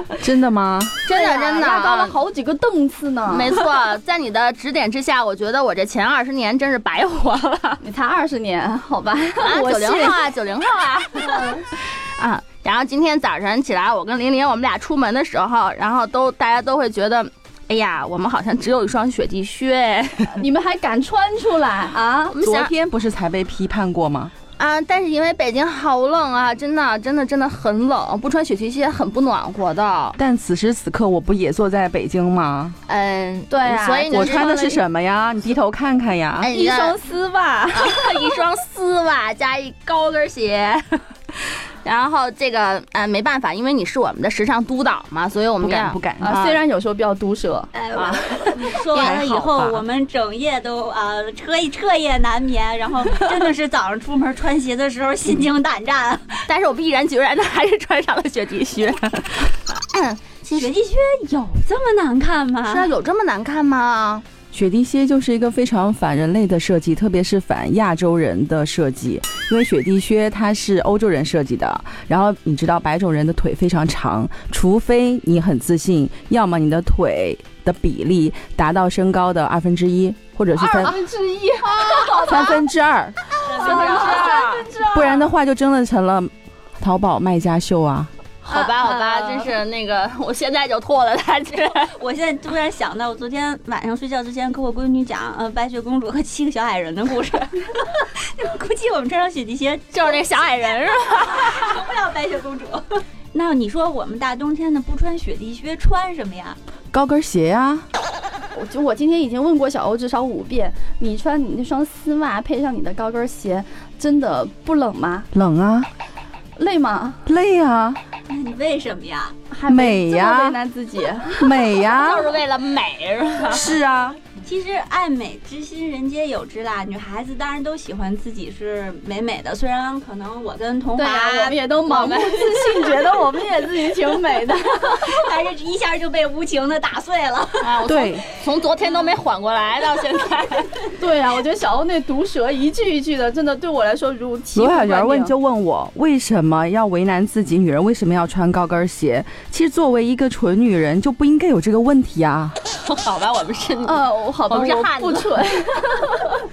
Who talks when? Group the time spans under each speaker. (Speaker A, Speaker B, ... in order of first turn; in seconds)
Speaker A: 0.2-1.0, 22.4-24.3, 30.2-32.8, 34.1-36.5, 45.6-46.4, 48.9-49.8, 64.5-81.0, 82.2-83.2, 84.9-88.1, 106.9-107.8, 115.3-115.9, 117.2-118.0, 119.7-120.6, 121.4-122.3, 123.4-124.2, 137.8-138.2, 144.5-152.6
Speaker B: 1.0-2.1, 3.3-7.8, 9.4-20.3, 22.3-22.7, 24.6-30.2, 32.9-34.5, 36.4-37.0, 37.7-46.6, 47.9-49.2, 56.5-60.7, 62.6-64.2, 83.6-84.7, 88.4-91.9, 99.9-101.8, 121.8-123.7, 131.9-132.4, 137.6-140.8, 152.8-155.3
Speaker C: 1.1-3.6, 7.8-10.2, 11.2-11.6, 20.3-22.3, 33.5-34.8, 36.5-38.1, 46.2-47.7, 80.6-82.6, 83.5-85.3, 88.5-89.5, 108.5-115.3, 116.5-117.2, 119.5-121.6, 130.9-135.1, 140.9-145.3, 153.8-156.4
Speaker D: 47.7-56.4, 60.5-62.9, 83.4-84.4, 91.9-100.4, 101.2-106.6, 118.3-119.3, 124.4-133.2, 134.5-137.8, 138.8-139.1